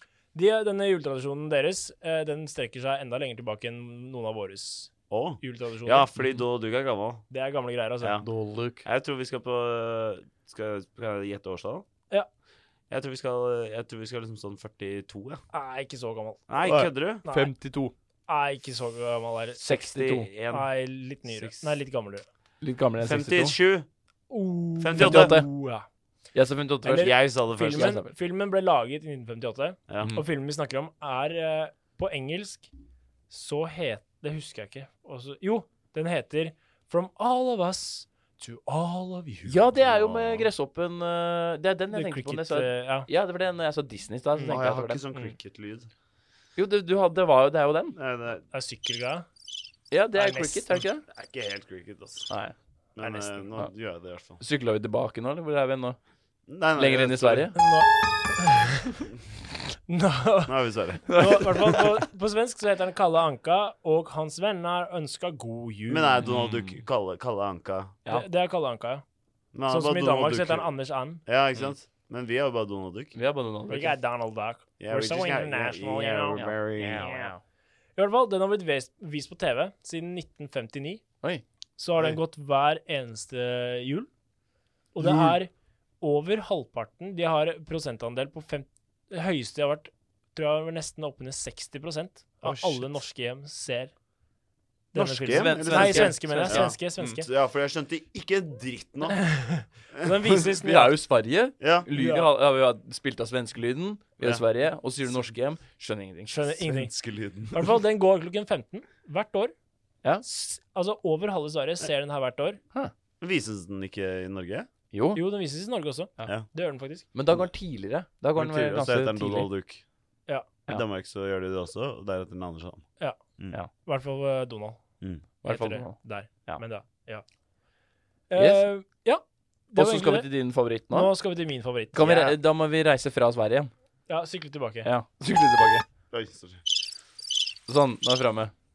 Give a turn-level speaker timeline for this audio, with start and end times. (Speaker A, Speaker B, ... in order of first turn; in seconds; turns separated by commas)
Speaker A: 0.3-6.1, Speaker B: 5.1-7.2, Speaker A: 7.3-8.2, Speaker B: 8.0-8.3, Speaker C: 8.2-8.9, Speaker B: 8.8-11.8, Speaker B: 12.9-15.4, Speaker A: 15.5-17.5, Speaker B: 16.5-17.2, Speaker C: 16.7-17.9, Speaker A: 18.3-19.6, Speaker C: 19.6-20.3, Speaker B: 19.7-20.7, Speaker A: 20.5-22.3, Speaker B: 21.3-21.8, Speaker C: 22.6-23.6, Speaker B: 23.0-23.9, Speaker A: 24.3-25.9, Speaker B: 24.8-25.4, Speaker C: 24.9-25.5, Speaker C: 26.3-28.1, Speaker A: 26.8-32.7, Speaker B: 26.9-28.0, Speaker A: 33.3-38.9, Speaker B: 38.4-40.5, Speaker C: 39.5-45.0, Speaker A: 41.9-43.1, Speaker A: 44.4-45.4, Speaker B: 44.5-45.9, Speaker C: 46.6-48.0, Speaker B: 48.0-48.5, Speaker A: 48.5-49.3, Speaker C: 49.9-51.0, Speaker A: 50.1-50.8, Speaker B: 51.1-52.3, Speaker C: 52.3-52.5, Speaker B: 53.0-54.4, Speaker A: 53.0-53.5, Speaker C: 54.4-56.0, Speaker B: 56.5-57.5, Speaker C: 56.8-57.6, Speaker A: 57.5-59.0, Speaker A: 59.9-66.2, Speaker B: 60.5-61.0, Speaker C: 61.1-62.0, Speaker B: 65.9-68.0, Speaker C: 66.2-66.8, Speaker A: 68.1-69.0, Speaker B: 69.5-70.7, Speaker A: 69.7-71.2, Speaker B: 71.3-73.2, Speaker C: 73.2-74.0, Speaker A: 73.7-76.4, Speaker B: 74.8-77.1, Speaker C: 76.3-77.4, Speaker A: 77.0-77.3, Speaker A: 78.0-81.0, Speaker A: 81.8-84.1, Speaker A: 85.0-93.9, Speaker C: 85.0-85.3, Speaker C: 92.4-93.0, Speaker A: 94.9-97.3, Speaker B: 95.0-99.3, Speaker C: 95.3-97.2, Speaker A: 99.1-101.0, Speaker B: 99.9-100.3, Speaker C: 100.6-106.3, Speaker B: 101.6-101.9, Speaker A: 101.9-102.3, Speaker A: 106.3-106.9, Speaker B: 106.6-107.8, Speaker A: 107.5-109.5, Speaker A: 110.2-112.6, Speaker B: 113.2-114.7, Speaker C: 114.9-115.2, Speaker A: 115.1-117.1, Speaker C: 117.1-119.5, Speaker B: 118.3-119.8, Speaker B: 120.7-122.9, Speaker A: 123.8-124.8, Speaker C: 125.4-126.6, Speaker A: 125.5-127.2, Speaker A: 128.3-130.3, Speaker C: 128.4-128.7, Speaker C: 129.8-131.1, Speaker A: 130.9-132.4, Speaker C: 131.9-133.7, Speaker A: 134.1-134.9, Speaker C: 134.8-135.8, Speaker B: 136.1-136.6, Speaker C: 137.7-138.5